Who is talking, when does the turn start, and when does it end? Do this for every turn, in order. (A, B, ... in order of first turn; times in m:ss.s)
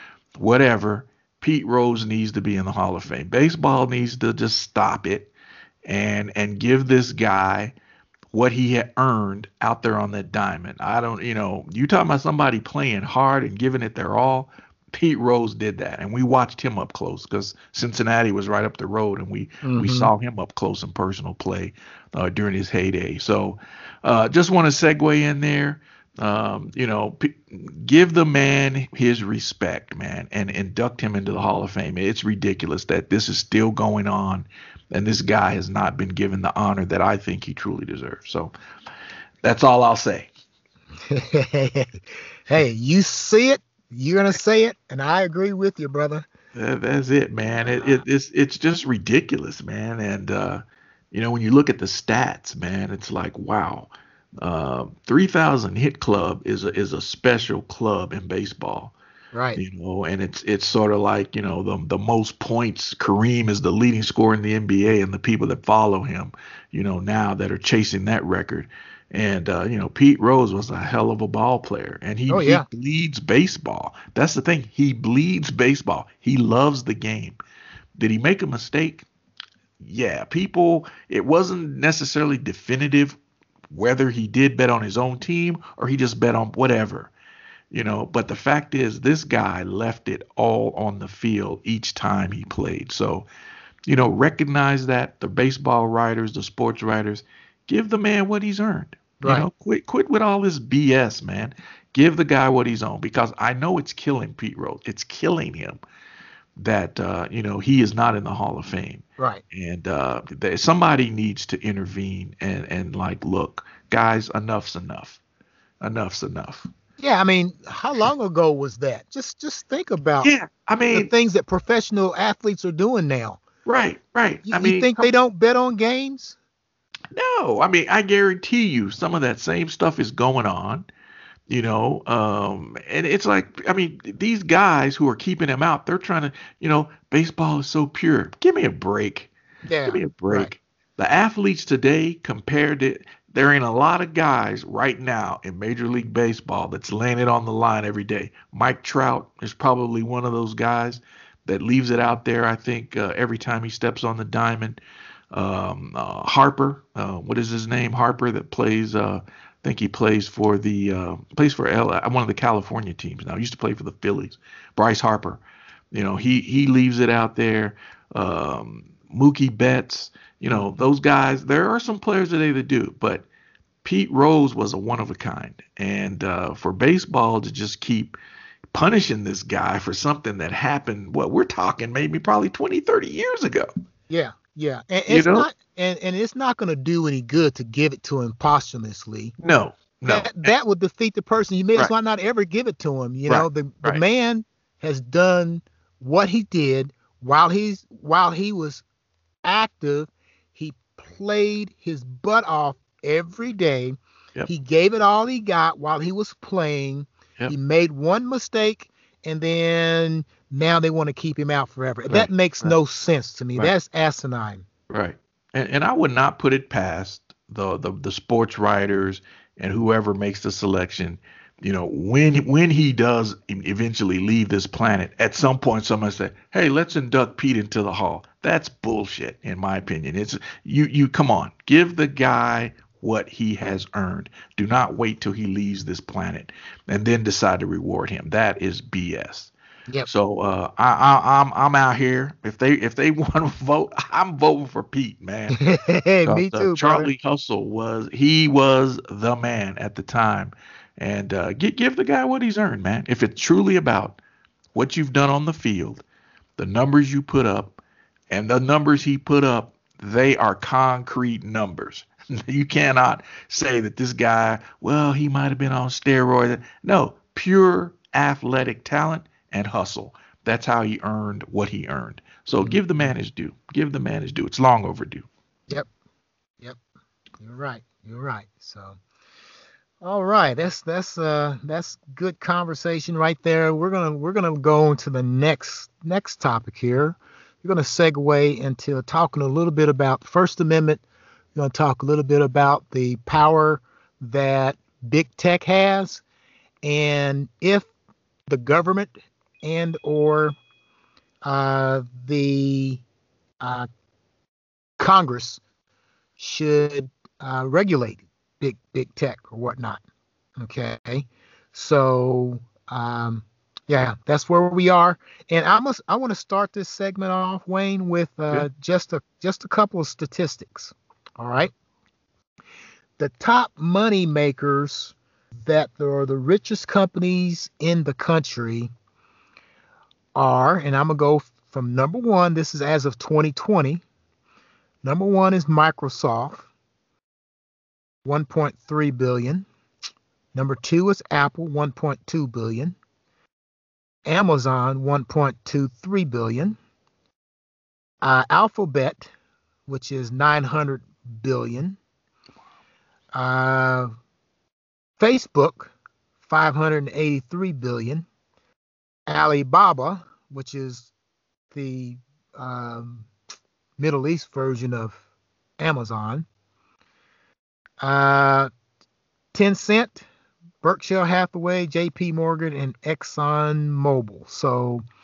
0:00.4-0:05.3 A
0:05.8-0:07.7 A
0:08.3-0:38.5 A
0:19.6-0:20.1 B
0:39.4-0:40.3 A
0:41.1-0:46.3 B
0:46.5-0:50.6 A
0:51.1-0:58.9 A
0:59.3-0:59.6 B
0:59.6-1:17.4 A
1:12.3-1:12.6 B
1:18.0-1:19.0 A
1:19.8-1:23.2 A
1:23.7-1:27.1 A
1:27.7-1:33.3 A
1:33.8-1:45.8 A
1:46.6-1:55.2 A
1:55.8-1:56.7 A
1:57.0-2:00.3 B
2:00.2-2:01.1 A
2:00.9-2:03.4 B
2:03.6-2:05.1 A
2:04.4-2:06.4 B
2:07.1-2:10.8 A
2:11.5-2:19.3 A
2:19.6-2:20.5 B
2:19.9-2:34.8 A
2:35.3-2:53.2 A
2:53.8-2:58.2 A
2:58.7-3:03.7 A
3:04.1-3:09.3 B
3:05.1-3:05.5 A
3:09.4-3:10.5 A
3:10.0-3:18.8 B
3:13.3-3:14.0 A
3:19.4-3:24.0 B
3:24.5-3:34.6 B
3:32.1-3:32.7 A
3:34.9-3:59.5 A
4:00.0-4:05.6 A
4:05.5-4:07.1 B
4:06.2-4:14.2 A
4:14.7-4:16.0 A
4:16.6-4:17.8 A
4:18.3-4:35.3 A
4:32.6-4:33.0 B
4:37.4-4:39.0 B
4:40.0-4:51.0 B
4:51.5-4:56.2 B
4:56.8-4:57.9 B
4:58.5-4:59.1 B
4:59.6-5:00.5 B
5:01.4-5:03.0 B
5:03.6-5:03.9 B
5:05.0-5:05.6 B
5:06.4-5:10.0 B
5:10.6-5:21.7 B
5:23.2-5:28.9 B
5:30.3-5:34.0 B
5:35.0-5:36.7 B
5:38.2-5:39.6 B
5:40.5-5:43.0 B
5:44.2-5:46.8 B
5:48.2-5:49.3 B
5:49.9-5:52.0 B
5:53.3-5:54.1 B
5:55.2-5:55.9 B
5:56.4-5:58.2 B
5:59.3-6:01.1 B
6:01.7-6:03.3 B
6:04.0-6:05.2 B
6:05.8-6:06.4 B
6:08.0-6:08.7 B
6:09.5-6:10.2 B
6:10.8-6:15.0 B